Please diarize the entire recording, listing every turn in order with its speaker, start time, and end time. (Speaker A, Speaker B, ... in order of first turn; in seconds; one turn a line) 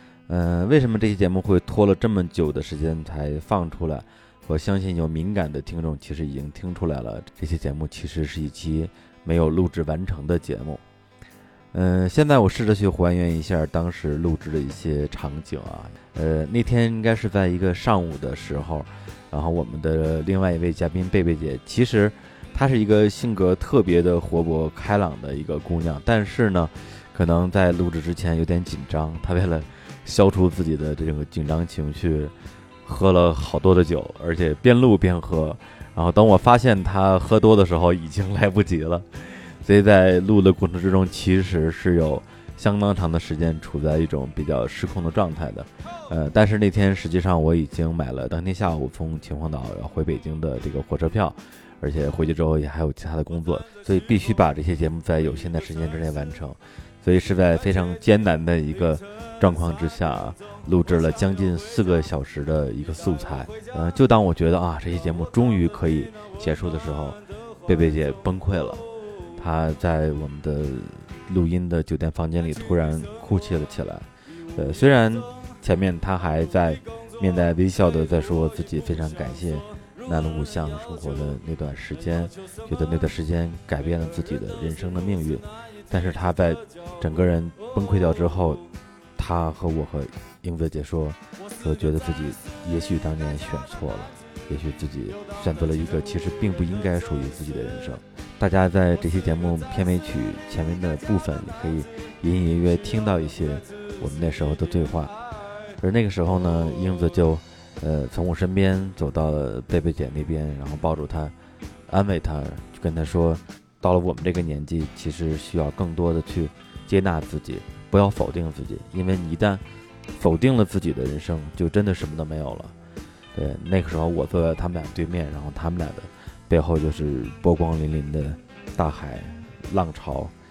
Speaker A: 0.3-10.8
Speaker A: 11.7-32.3
Speaker A: 32.8-68.8
Speaker A: 69.4-88.6
Speaker A: 89.2-105.1
Speaker A: 105.8-111.3
Speaker A: 111.9-119.6
Speaker A: 120.2-122.7
Speaker A: 123.3-130.3